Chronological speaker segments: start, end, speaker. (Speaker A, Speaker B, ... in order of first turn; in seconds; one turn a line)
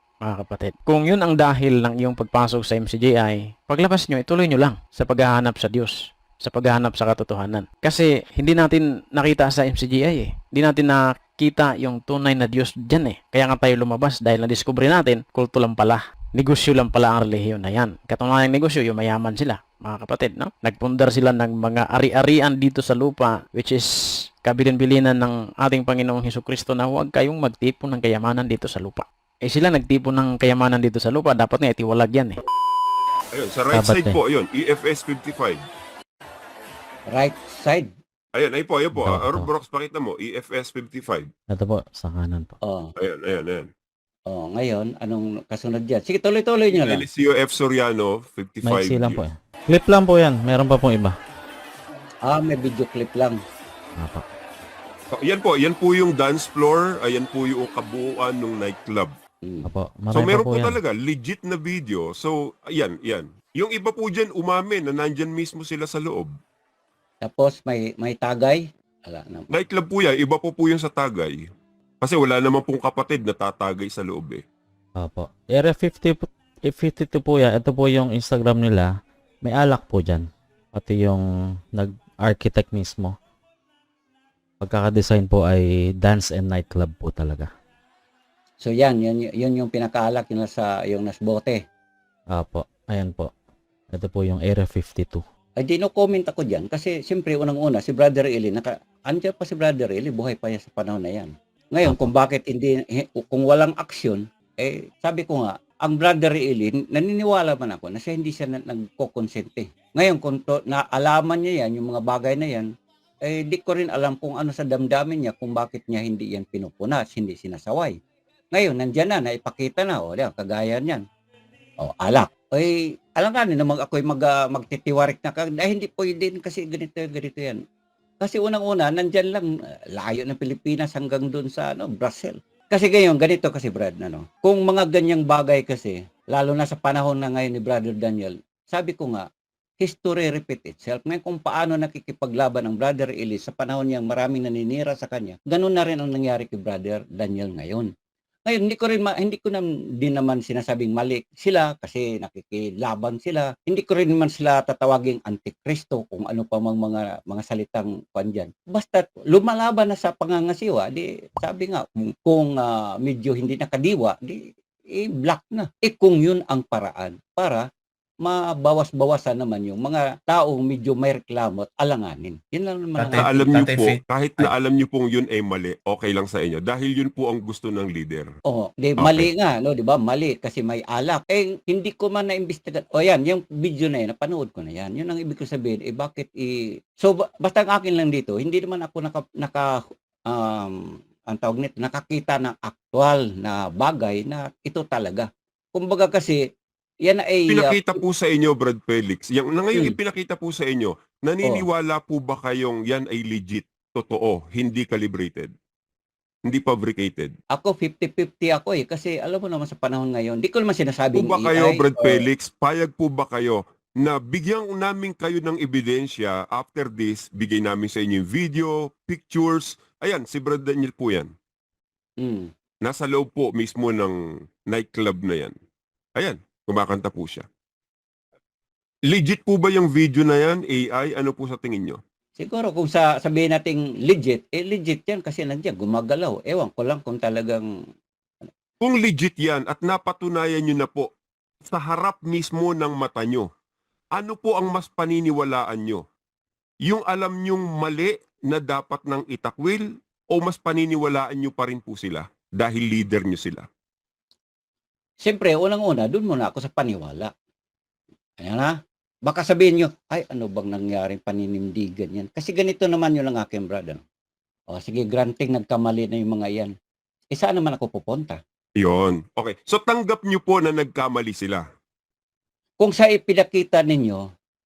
Speaker A: 0.2-23.9
Speaker A: 24.4-32.4
Speaker B: 33.3-35.6
Speaker C: 33.7-34.2
Speaker D: 37.1-37.9
Speaker B: 38.3-41.3
Speaker C: 39.0-39.5
Speaker C: 41.5-42.6
Speaker D: 42.7-42.9
Speaker B: 43.0-43.7
Speaker D: 44.3-47.0
Speaker B: 46.7-49.2
Speaker C: 48.6-51.2
Speaker D: 52.3-53.4
Speaker C: 54.0-54.2
Speaker B: 55.1-59.1
Speaker D: 59.4-59.7
Speaker C: 59.6-60.8
Speaker B: 60.1-66.3
Speaker D: 67.2-69.5
Speaker B: 69.5-71.4
Speaker B: 72.0-74.4
Speaker C: 75.0-78.9
Speaker C: 79.4-83.2
Speaker C: 84.6-87.5
Speaker D: 88.6-91.6
Speaker C: 92.3-93.3
Speaker C: 93.9-95.2
Speaker D: 95.6-112.7
Speaker D: 113.2-118.0
Speaker D: 118.5-121.0
Speaker D: 121.8-127.6
Speaker D: 128.2-139.2
Speaker D: 139.8-147.9
Speaker D: 148.5-164.4
Speaker D: 164.9-167.6
Speaker D: 168.2-173.5
Speaker A: 173.0-174.5
Speaker B: 173.1-178.3
Speaker D: 178.5-189.7
Speaker B: 179.0-179.3
Speaker D: 190.3-190.8
Speaker D: 191.3-196.4
Speaker D: 197.1-198.0
Speaker B: 197.5-205.5
Speaker B: 206.5-207.3
Speaker D: 207.6-212.3
Speaker B: 211.2-221.3
Speaker D: 222.2-222.5
Speaker B: 222.8-225.6
Speaker B: 226.2-227.5
Speaker B: 229.1-232.0
Speaker D: 232.4-237.7
Speaker B: 238.8-241.1
Speaker B: 241.7-243.5
Speaker B: 244.2-246.0
Speaker B: 246.8-253.7
Speaker D: 255.2-257.3
Speaker D: 258.4-258.7
Speaker D: 259.3-264.0
Speaker D: 264.7-266.7
Speaker D: 267.3-268.4
Speaker B: 268.8-271.6
Speaker D: 272.8-274.2